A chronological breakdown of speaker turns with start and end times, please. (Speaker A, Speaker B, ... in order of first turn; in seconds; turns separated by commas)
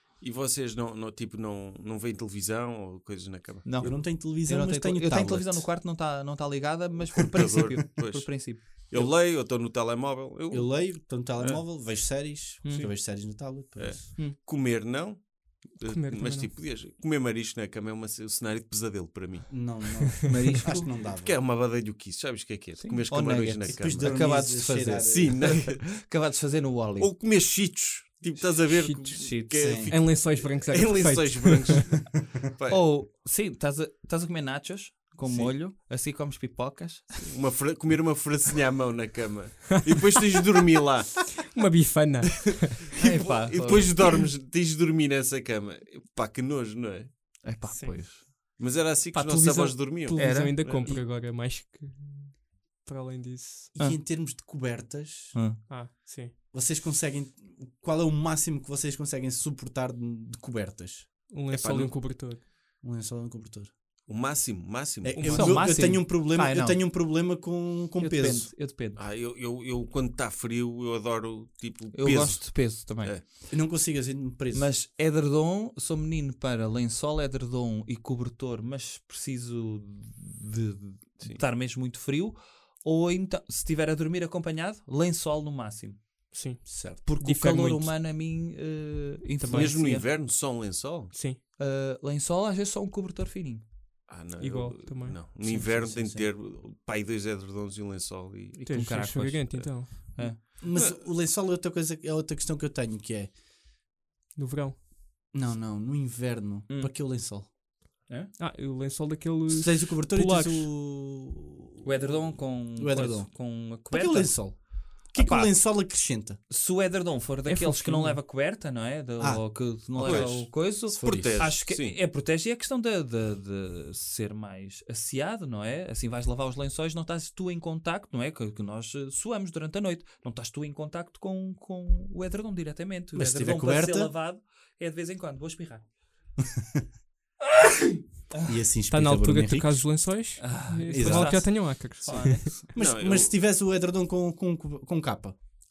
Speaker A: 0.2-3.9, Speaker B: 3.6-9.1, Speaker C: 3.8-5.7, Speaker A: 7.3-11.6, Speaker C: 10.5-14.1, Speaker B: 12.6-12.9, Speaker A: 12.7-13.0, Speaker A: 13.8-19.9, Speaker D: 15.8-16.5, Speaker C: 19.5-21.4, Speaker B: 20.3-20.9, Speaker A: 21.2-24.2, Speaker B: 22.8-27.1, Speaker C: 23.8-25.4, Speaker A: 25.0-26.0, Speaker A: 27.0-32.8, Speaker D: 28.5-29.2, Speaker B: 29.2-29.7, Speaker C: 29.6-30.0, Speaker D: 29.9-32.0, Speaker B: 32.7-37.2, Speaker A: 37.2-41.4, Speaker D: 41.4-43.0, Speaker A: 42.3-47.1, Speaker B: 43.0-44.2, Speaker B: 47.4-48.4, Speaker D: 47.7-48.0, Speaker A: 48.6-51.0, Speaker B: 49.1-51.0, Speaker D: 49.2-53.7, Speaker C: 53.8-55.4, Speaker B: 55.3-55.6, Speaker D: 55.7-56.4, Speaker C: 56.5-61.2, Speaker D: 61.3-62.4, Speaker A: 61.5-62.3, Speaker C: 62.8-63.7, Speaker A: 64.1-65.6, Speaker C: 65.0-68.5, Speaker D: 65.1-65.6, Speaker B: 65.3-66.8, Speaker B: 68.0-69.0, Speaker A: 69.0-73.3, Speaker B: 71.9-73.2, Speaker C: 73.5-74.8, Speaker B: 74.5-86.2, Speaker D: 86.3-86.6, Speaker C: 86.7-87.1, Speaker B: 87.0-90.1, Speaker D: 87.2-88.0, Speaker A: 89.5-91.1, Speaker D: 91.1-91.4, Speaker B: 91.6-93.7, Speaker A: 94.1-98.8, Speaker D: 94.4-95.2, Speaker C: 95.4-96.3, Speaker D: 98.6-100.3, Speaker B: 98.6-100.4, Speaker C: 100.5-103.3, Speaker A: 100.7-101.0, Speaker D: 104.4-104.8, Speaker C: 105.3-107.5, Speaker B: 106.7-106.9, Speaker B: 108.1-108.3, Speaker D: 108.4-110.7, Speaker C: 109.5-111.9, Speaker B: 111.8-115.7, Speaker C: 112.8-116.4, Speaker B: 116.5-135.8, Speaker D: 117.5-118.2, Speaker C: 119.2-121.5, Speaker A: 120.0-122.0, Speaker C: 133.1-134.1, Speaker B: 137.4-138.5, Speaker C: 138.4-139.9, Speaker D: 138.9-142.6, Speaker B: 140.4-142.7, Speaker C: 140.9-141.7, Speaker C: 142.7-145.3, Speaker A: 142.8-143.3